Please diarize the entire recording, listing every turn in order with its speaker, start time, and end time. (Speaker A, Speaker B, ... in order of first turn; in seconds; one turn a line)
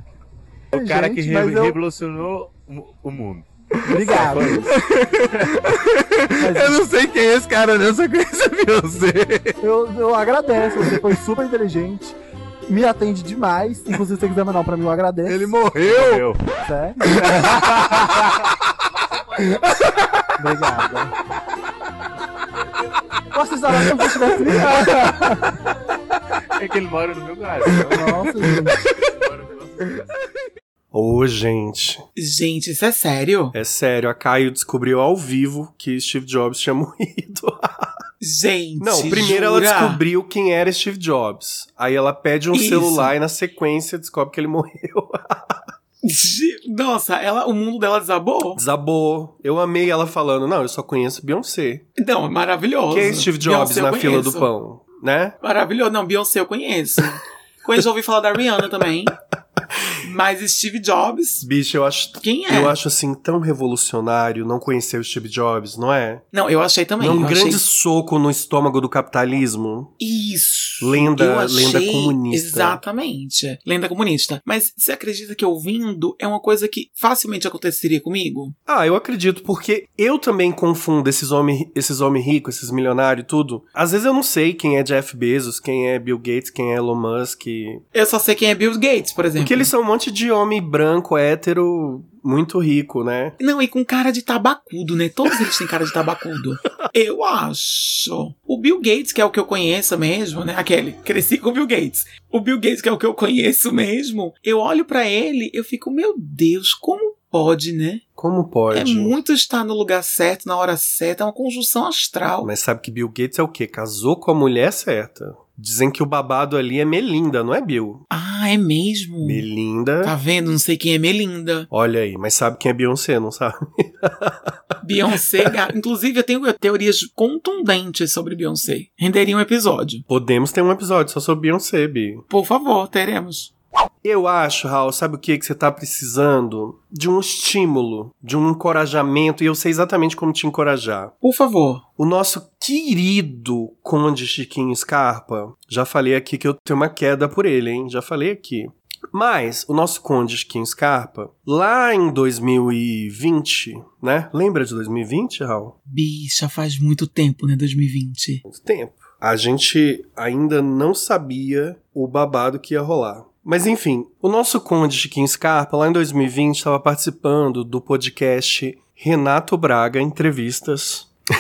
Speaker A: 0.7-1.8
Speaker B: 0.7-3.5
Speaker A: 3.9-4.7
Speaker B: 4.0-4.7
Speaker C: 4.8-5.2
Speaker A: 6.4-6.8
Speaker C: 6.5-9.6
Speaker A: 9.6-12.2
Speaker A: 12.7-15.5
Speaker C: 15.3-16.2
Speaker B: 15.8-16.4
Speaker A: 16.6-17.0
Speaker A: 20.4-21.1
Speaker A: 23.3-24.7
Speaker B: 26.6-28.3
Speaker A: 27.9-28.8
Speaker B: 29.2-30.1
Speaker D: 30.9-32.0
Speaker E: 32.2-33.5
Speaker D: 33.5-37.9
Speaker E: 38.2-40.0
Speaker D: 38.8-45.6
Speaker E: 42.5-43.1
Speaker E: 46.0-48.6
Speaker D: 48.6-51.9
Speaker E: 52.0-54.5
Speaker D: 52.9-55.4
Speaker E: 55.4-59.1
Speaker E: 60.0-61.5
Speaker D: 61.4-66.2
Speaker E: 62.2-62.8
Speaker E: 66.3-67.6
Speaker D: 67.0-69.9
Speaker E: 70.0-78.5
Speaker D: 70.8-72.8
Speaker D: 78.7-87.8
Speaker E: 87.9-89.7
Speaker D: 89.4-93.4
Speaker E: 93.4-108.0
Speaker D: 108.2-109.2
Speaker E: 108.7-112.5
Speaker D: 112.4-118.0
Speaker E: 118.1-119.5
Speaker D: 119.2-120.1
Speaker E: 120.0-121.7
Speaker D: 121.7-124.4
Speaker E: 124.8-130.0
Speaker D: 130.1-132.2
Speaker E: 132.3-133.5
Speaker D: 134.0-141.1
Speaker E: 141.2-141.8
Speaker D: 142.0-155.8
Speaker E: 155.9-158.4
Speaker D: 158.4-171.1